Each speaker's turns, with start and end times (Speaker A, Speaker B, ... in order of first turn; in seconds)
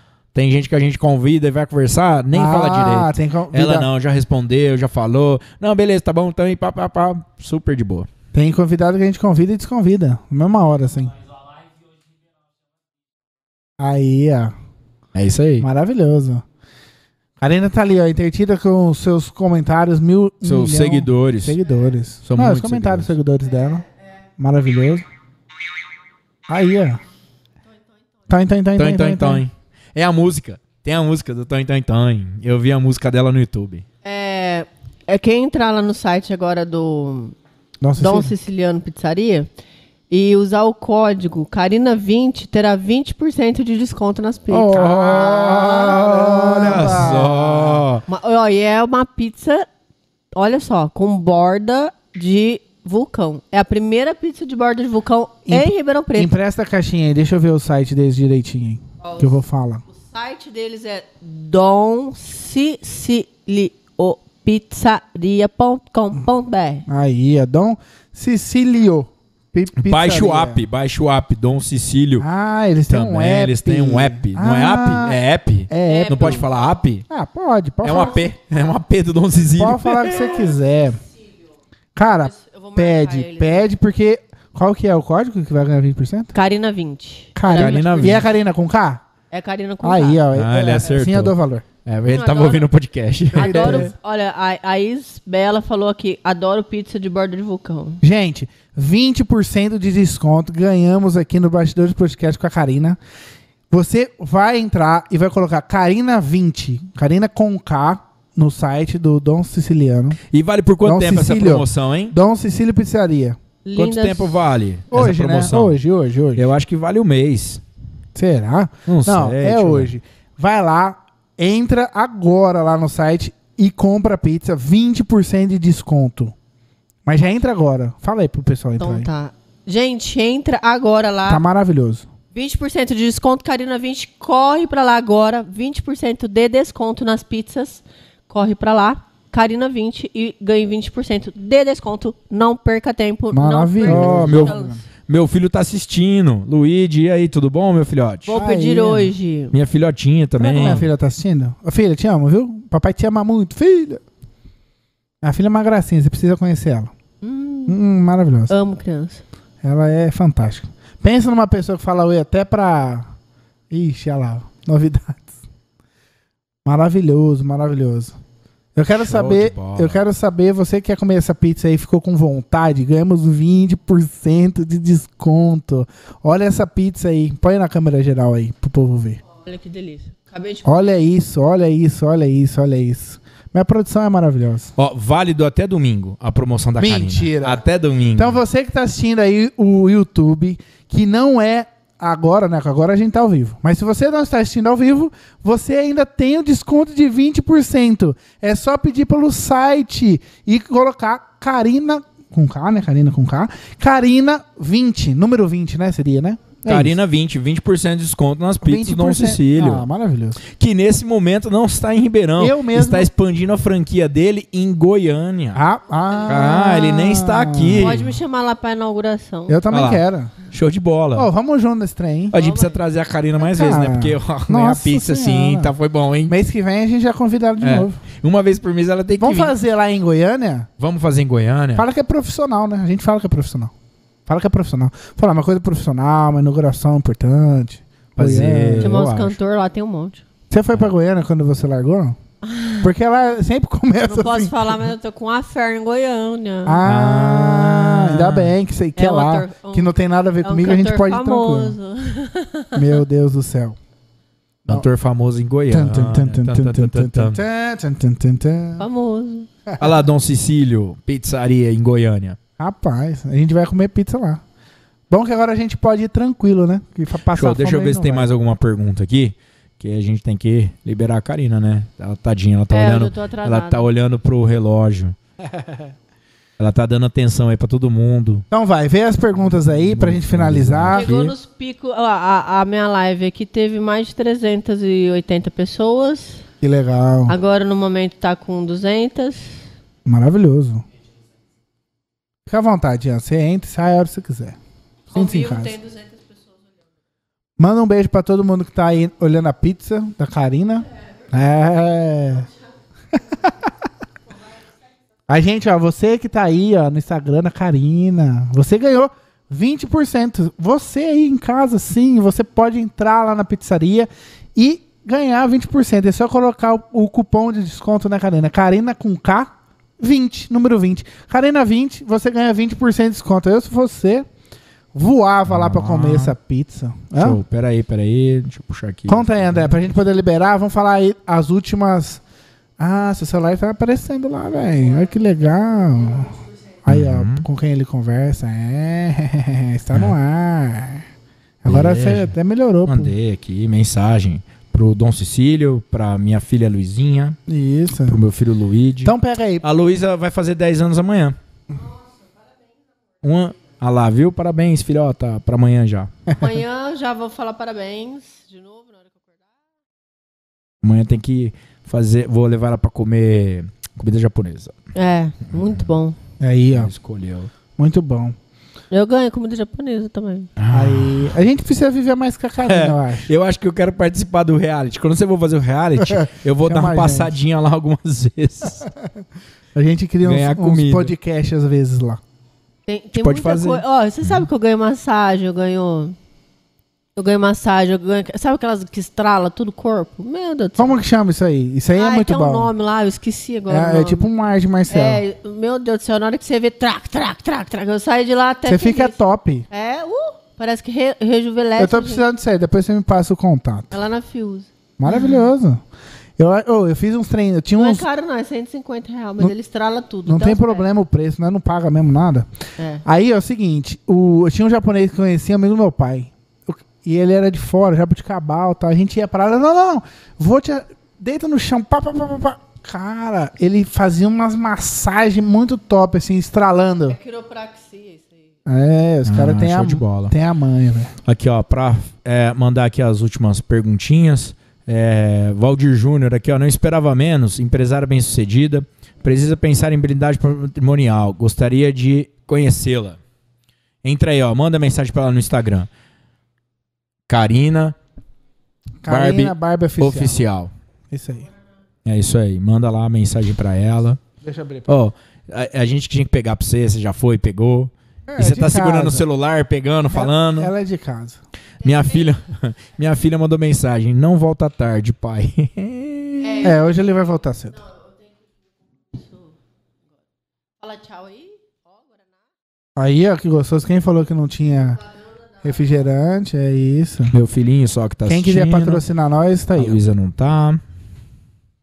Speaker A: 0.3-8.1, 15.2-15.7, 20.4-21.6, 22.2-23.1, 28.8-33.9, 44.5-48.0, 69.8-72.3, 72.9-77.1, 77.8-80.5, 87.5-88.3, 90.3-93.9, 110.3-112.2, 113.8-115.8, 116.4-117.6, 118.9-119.9, 143.9-148.4, 149.5-150.9, 169.0-170.0, 184.8-188.4, 206.7-209.9, 210.5-215.6, 216.3-218.1, 219.7-221.3, 222.3-226.3, 227.6-229.6, 230.8-231.9, 238.2-239.4, 246.8-248.5, 254.7-257.4, 259.8-262.4, 267.3-275.2, 276.6-278.4, 279.5-281.3, 325.5-326.4, 327.2-329.9, 336.9-337.5, 341.7-342.3, 342.9-347.4, 348.1-351.4, 353.2-356.1, 360.8-364.8, 365.5-365.8, 366.7-367.5, 370.6-371.4, 372.6-378.9, 380.2-381.1, 383.1-384.5, 429.3-430.3, 431.2-443.2, 444.0-445.9, 447.3-447.9, 449.1-450.7, 452.1-454.2, 454.9-460.7, 461.8-466.7, 477.3-479.0, 479.8-480.8
Speaker B: 2.3-3.9, 8.3-11.2, 13.8-14.5, 15.6-16.4, 17.4-23.9, 24.4-25.1, 26.5-27.0, 28.3-29.4, 37.8-38.3, 44.7-47.9, 55.5-59.8, 66.9-70.6, 72.2-76.5, 77.1-78.3, 79.6-81.0, 82.0-86.3, 87.4-89.0, 89.8-91.7, 93.3-93.9, 98.0-103.0, 103.7-110.2, 110.8-113.4, 114.9-116.5, 118.2-126.3, 127.1-129.1, 131.3-132.1, 143.3-144.8, 148.3-149.1, 150.4-154.0, 155.2-156.9, 157.7-158.6, 159.6-163.1, 163.7-165.3, 166.7-168.2, 168.8-179.2, 180.7-184.7, 186.8-187.6, 188.2-207.0, 208.6-210.4, 212.4-213.1, 215.6-218.1, 219.5-220.3, 221.2-222.4, 223.4-225.7, 226.3-228.0, 229.2-230.7, 231.8-233.7, 234.3-239.0, 240.5-242.2, 242.8-244.9, 246.7-251.8, 252.7-253.8, 255.7-258.9, 262.6-264.4, 265.1-268.3, 278.5-281.1, 286.6-287.4, 290.1-290.8, 292.5-294.6, 295.1-295.8, 297.6-302.5, 305.3-324.3, 324.9-327.4, 329.1-332.2, 332.8-341.1, 341.6-343.1, 347.5-348.2, 349.1-349.6, 366.4-366.9, 367.8-368.4, 370.7-373.3, 376.0-377.4, 379.8-382.2, 390.8-392.7, 393.7-395.2, 398.6-399.7, 401.8-403.9, 405.0-405.8, 406.4-408.1, 410.3-412.5, 413.0-427.2, 428.7-431.1, 449.0-450.4, 451.1-451.5, 454.4-454.9, 458.3-459.3, 460.1-461.4, 466.6-467.8, 473.0-475.0, 475.6-477.4, 478.3-480.0
Speaker C: 34.0-37.4, 38.0-39.5, 40.1-44.9, 48.1-49.7, 50.4-56.3, 59.0-66.8, 75.8-76.5, 82.2-83.7, 86.3-88.2, 89.3-90.2, 92.1-92.7, 93.3-98.0, 113.7-114.4, 128.8-131.4, 132.3-144.8, 148.3-149.6, 157.2-157.8, 158.5-159.2, 179.4-180.9, 217.8-219.6, 222.3-222.8, 238.8-240.2, 242.4-242.9, 244.1-246.8, 249.0-252.9, 258.8-259.5, 272.7-273.9, 280.9-286.4, 287.3-289.6, 295.1-296.6, 356.4-359.5, 364.9-366.2, 368.9-370.5, 382.9-386.2, 387.2-391.0, 391.9-394.3, 394.9-399.2, 399.7-402.3, 403.9-405.3, 407.8-410.9, 412.8-413.0, 427.1-428.4, 466.4-467.0, 467.8-468.4, 469.1-469.5, 470.8-472.4